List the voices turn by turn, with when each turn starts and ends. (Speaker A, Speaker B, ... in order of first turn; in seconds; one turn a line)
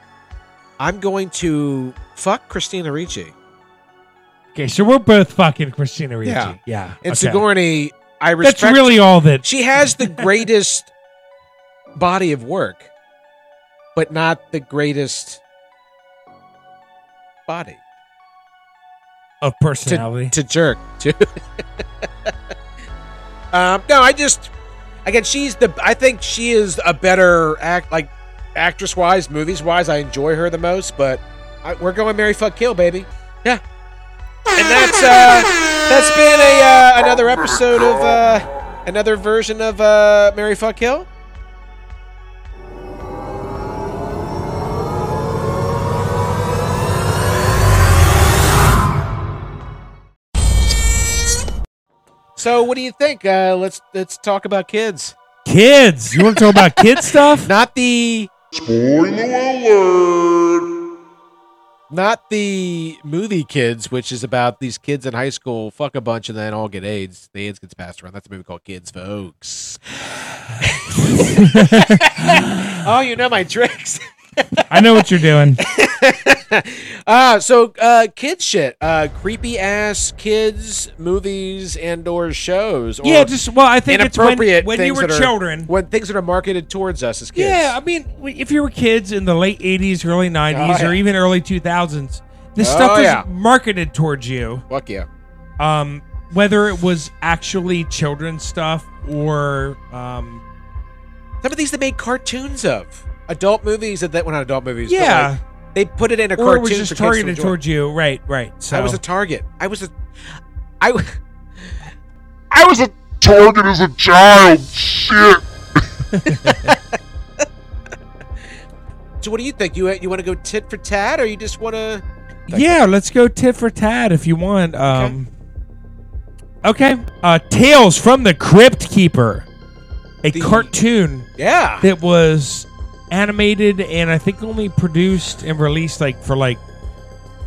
Speaker A: 0.8-3.3
Speaker B: 4.5-7.4
Speaker A: 6.2-10.9
Speaker B: 8.4-9.5
Speaker B: 10.0-10.2
Speaker A: 12.0-12.9
Speaker A: 13.9-15.4
Speaker A: 17.5-17.8
Speaker B: 19.4-20.4
Speaker A: 19.9-21.3
Speaker A: 21.8-22.3
Speaker A: 23.5-24.5
Speaker A: 25.1-33.6
Speaker A: 34.6-41.1
Speaker A: 52.4-55.1
Speaker B: 55.5-57.5
Speaker A: 57.4-58.3
Speaker C: 58.5-60.6
Speaker A: 61.9-69.8
Speaker A: 70.6-74.0
Speaker B: 71.4-72.7
Speaker B: 74.7-75.6
Speaker A: 74.8-75.0
Speaker A: 75.6-83.3
Speaker B: 83.0-85.7
Speaker A: 83.9-87.8
Speaker B: 87.3-94.7
Speaker A: 90.5-91.0
Speaker A: 92.6-93.3
Speaker A: 94.7-95.1
Speaker B: 95.6-100.4
Speaker A: 101.4-107.6
Speaker B: 104.9-105.4
Speaker B: 106.4-109.0
Speaker A: 108.7-109.9
Speaker A: 110.8-111.2
Speaker C: 112.5-115.4
Speaker B: 116.1-116.6
Speaker A: 116.4-116.8
Speaker A: 119.2-122.8
Speaker B: 122.5-125.3
Speaker A: 124.9-125.2
Speaker B: 126.6-129.5
Speaker B: 130.2-131.3
Speaker A: 130.3-130.7
Speaker A: 131.4-131.9
Speaker B: 131.8-136.6